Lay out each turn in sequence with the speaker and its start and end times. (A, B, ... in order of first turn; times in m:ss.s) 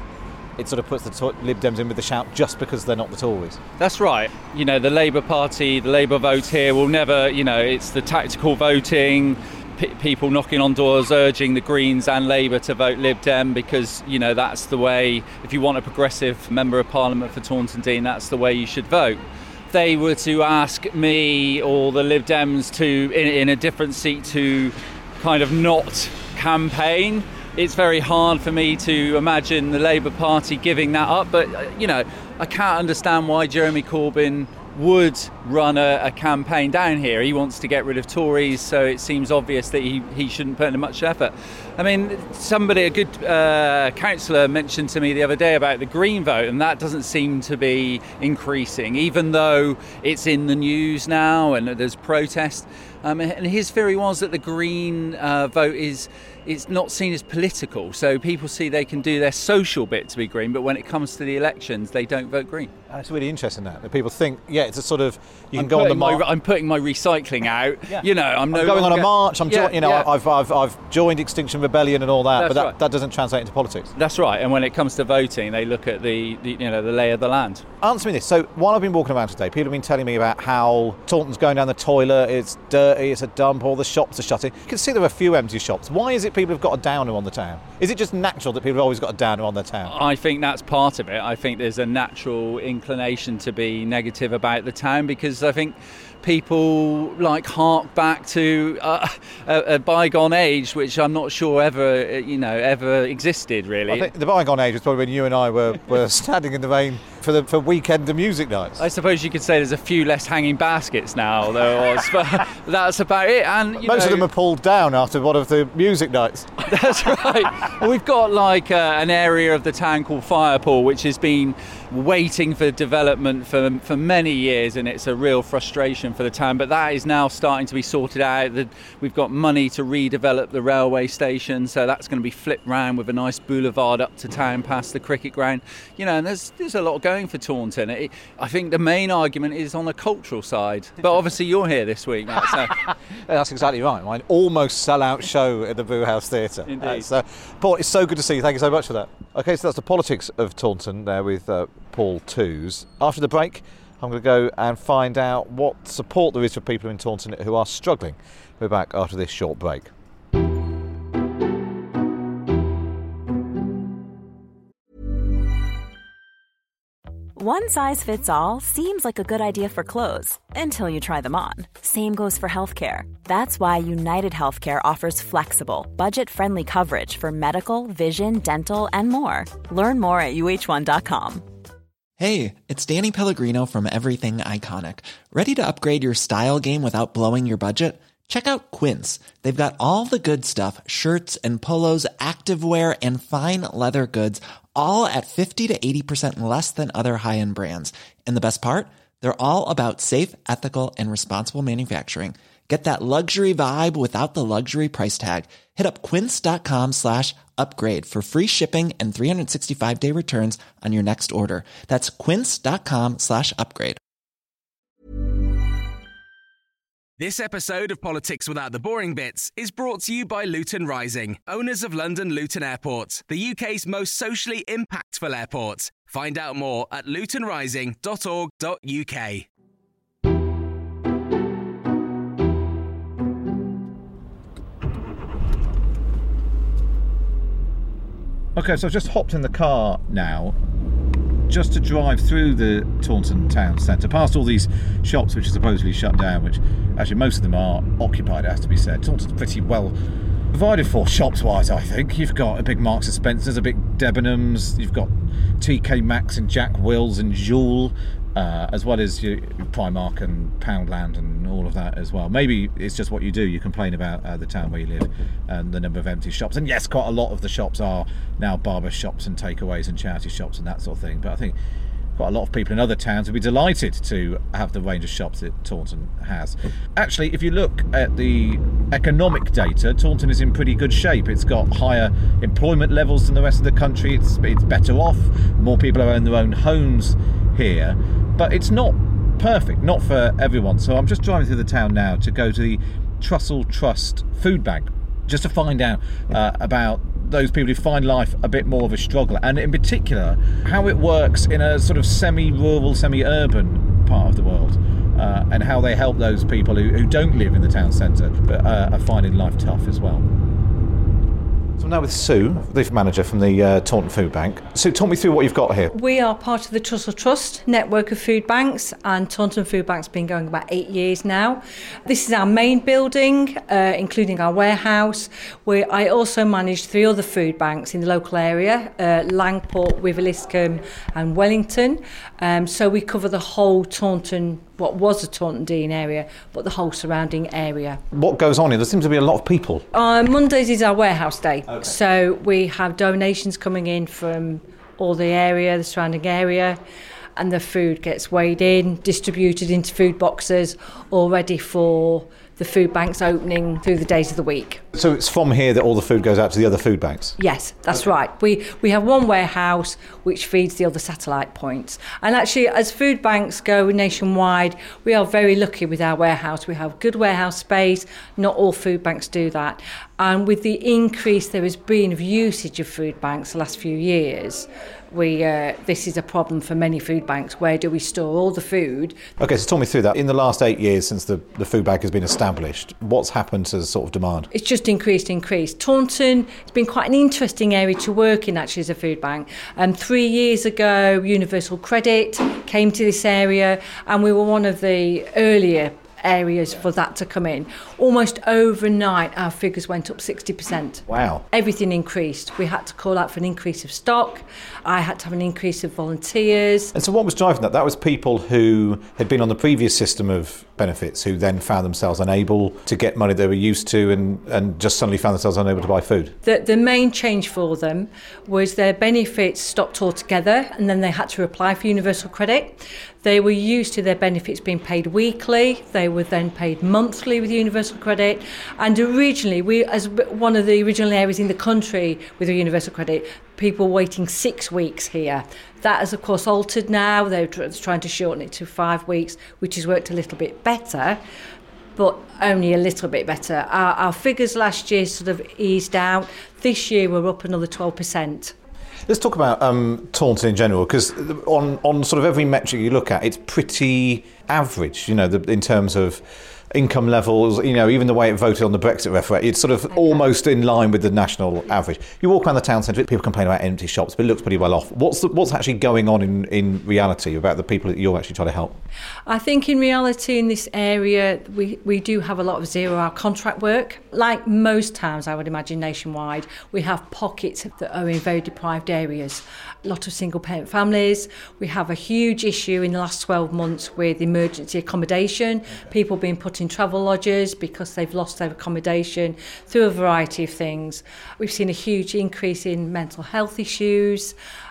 0:00.6-0:03.6 A
0:03.8-1:02.7 B
1:02.9-1:06.2 A
1:05.6-1:10.1 B
1:07.9-1:13.9 A
1:12.4-1:12.7 B
1:14.0-1:17.6 B
1:17.8-1:30.0 A
1:29.9-1:44.1 B
1:43.9-1:48.8 A
1:48.8-1:54.3 B
1:53.8-1:56.6 A
1:56.6-2:22.8 B
2:23.3-2:39.9 A
2:26.7-2:27.1 B
2:47.4-3:01.5 C
3:02.2-3:34.0 D
3:37.2-3:49.5 E
3:58.6-4:00.6 A
4:01.5-4:10.0 A
4:10.5-4:31.6 A
4:32.2-5:10.2 A
5:11.8-5:15.9 A
5:15.9-5:38.0 F
5:38.1-5:39.9 A
5:39.9-5:46.8 F
5:47.4-5:54.8 F
5:54.9-5:57.4 A
5:57.4-6:19.2 F
6:19.4-6:24.5 A
6:24.5-6:46.9 F
6:41.1-6:41.4 A
6:47.0-6:56.4 A
6:56.4-7:21.2 F
7:22.0-7:28.6 F
7:29.1-7:48.8 A
7:49.3-8:14.4 F